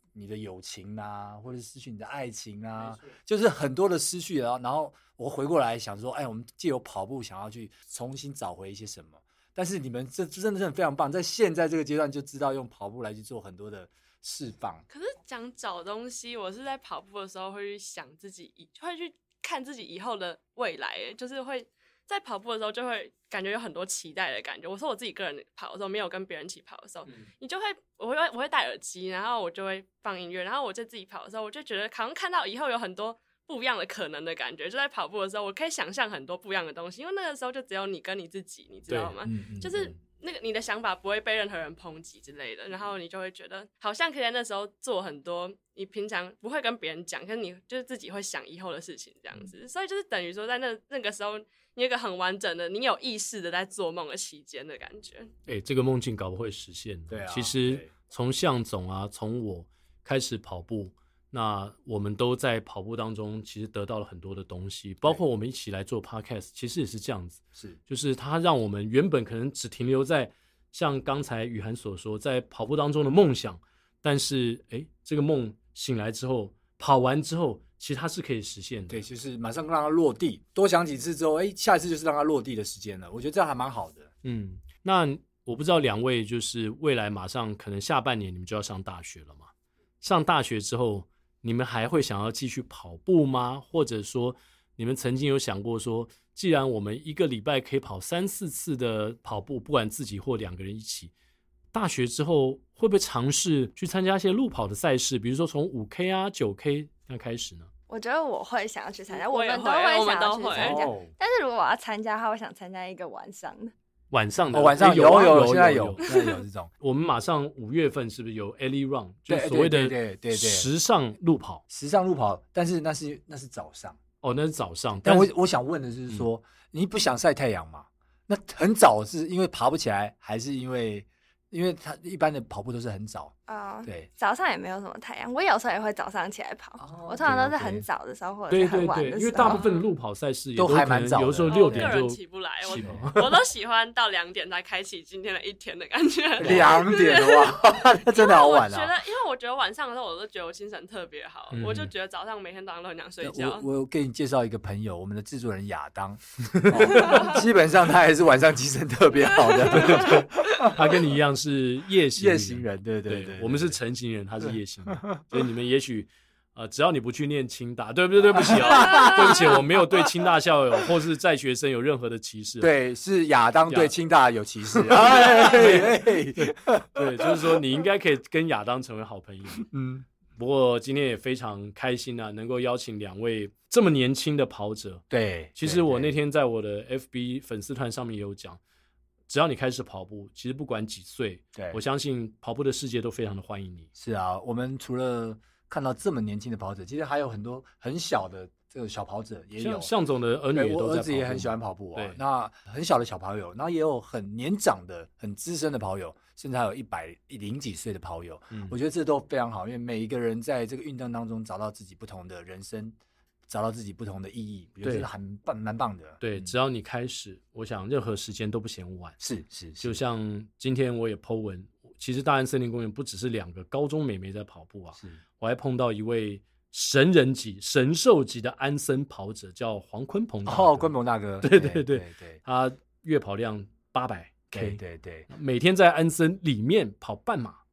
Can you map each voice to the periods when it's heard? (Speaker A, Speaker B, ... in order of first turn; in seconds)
Speaker A: 0.1-14.8, 39.2-40.0, 57.1-57.9, 78.9-84.1, 110.5-111.1, 114.5-116.7, 119.3-120.7, 121.7-124.0, 125.0-133.3, 136.8-137.9, 140.6-141.9, 142.7-143.1, 146.4-148.9, 153.2-161.0, 162.2-163.8, 164.4-165.2, 168.4-169.9, 172.6-177.6, 179.6-180.1, 185.1-186.1, 191.5-191.8, 193.9-199.9, 200.5-212.9, 213.5-216.5, 219.2-220.0, 230.4-232.4, 234.5-235.3
Speaker B: 14.9-55.3, 109.1-110.9, 116.1-116.4, 139.4-139.8, 141.4-153.7, 156.9-157.3, 159.3-160.2
Speaker C: 38.9-39.1, 55.5-79.0, 84.2-89.5, 90.0-101.1, 101.7-107.7, 114.1-116.1, 116.8-121.6, 124.2-125.3, 138.5-143.3, 146.4-146.8, 151.5-151.9, 156.7-157.2, 159.7-172.7, 174.9-179.7, 180.4-185.0, 185.6-188.6, 189.3-193.9, 199.6-202.2, 208.5-208.8, 214.8-215.1, 216.2-219.2, 219.8-234.8, 235.3-237.6
Speaker D: 107.9-113.7, 133.5-139.6